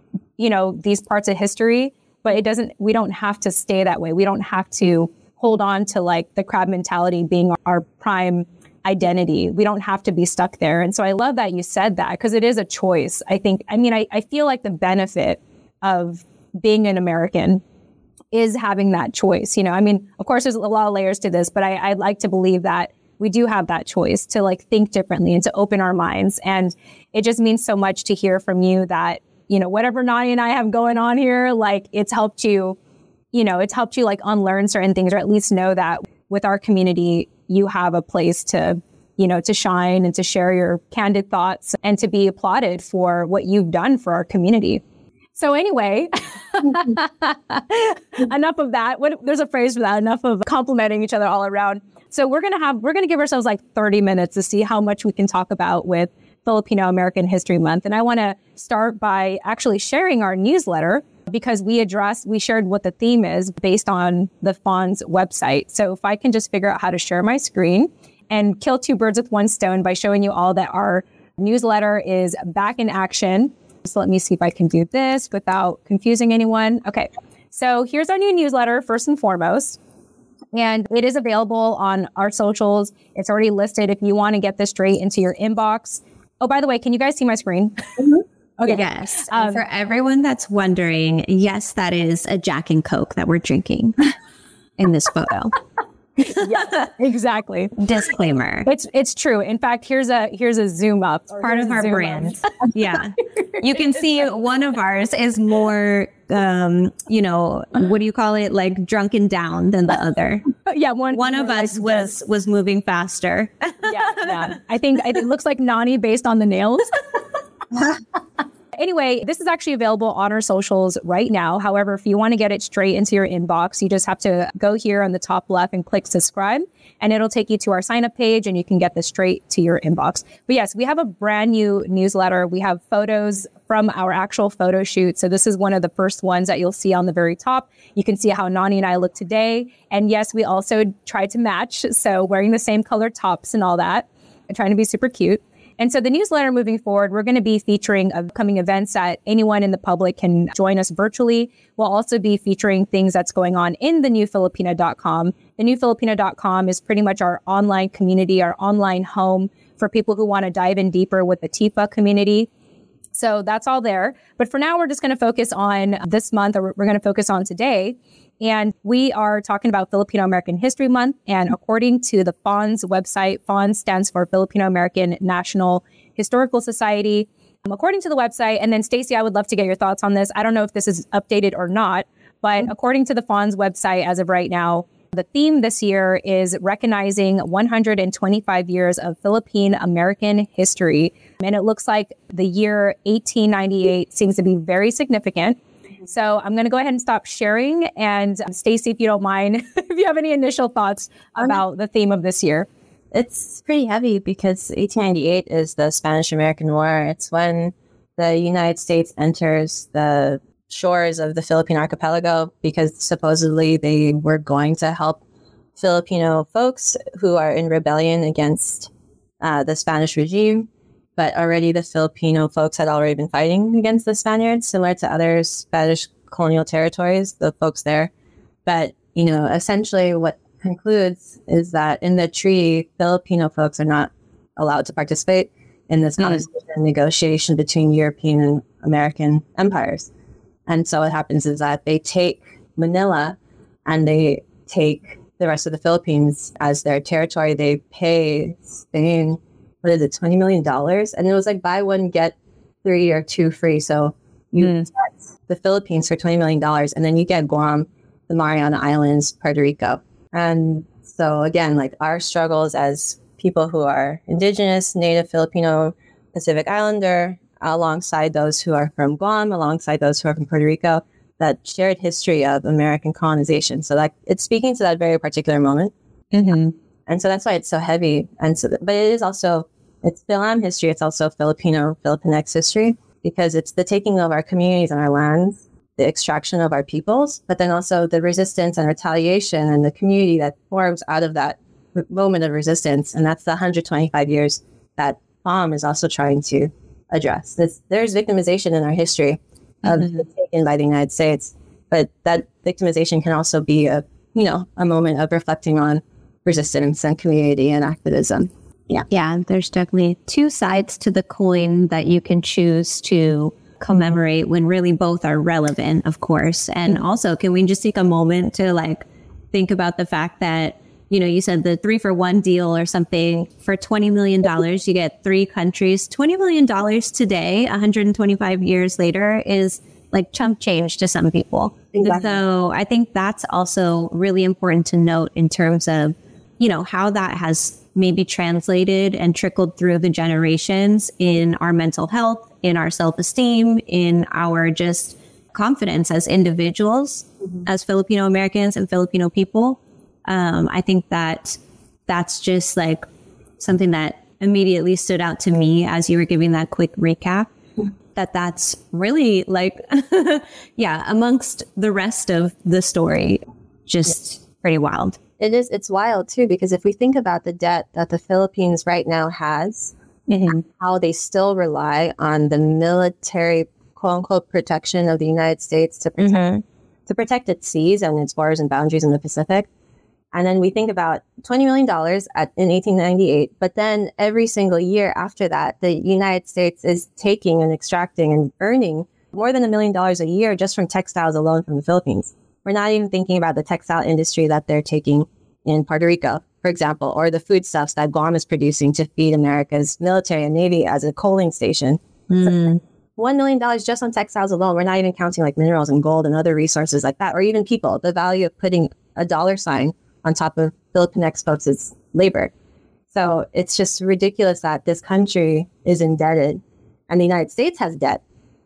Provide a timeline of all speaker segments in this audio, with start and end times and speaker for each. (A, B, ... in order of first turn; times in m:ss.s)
0:00.4-0:17.6 A
0:18.3-0:32.8 A
0:33.3-0:44.8 A
0:45.4-1:19.8 A
1:20.5-1:29.6 A
1:28.6-1:34.1 B
1:34.8-1:35.6 B
1:36.3-1:37.8 A
1:37.8-1:38.7 B
1:38.6-1:42.4 A
1:41.4-1:50.5 B
1:50.6-1:52.1 A
1:51.1-1:54.5 B
1:53.8-1:57.0 A
1:58.8-2:42.5 A
2:43.1-3:22.7 A
3:23.1-3:35.2 C
3:35.8-3:38.9 C
3:39.4-3:48.1 C
3:48.6-4:00.1 C
4:00.7-4:35.9 C
4:14.6-4:14.9 A
4:36.3-4:36.8 A
4:37.1-5:09.0 C
5:09.1-5:53.0 B
5:31.9-5:32.4 C
5:53.6-5:57.5 B
5:58.1-6:05.2 B
6:05.4-6:09.9 C
6:10.3-6:10.6 A
6:10.7-6:16.5 C
6:16.2-6:16.6 B
6:17.1-6:19.7 C
6:20.3-6:52.5 C
6:42.3-6:42.8 B
6:53.1-6:58.2 C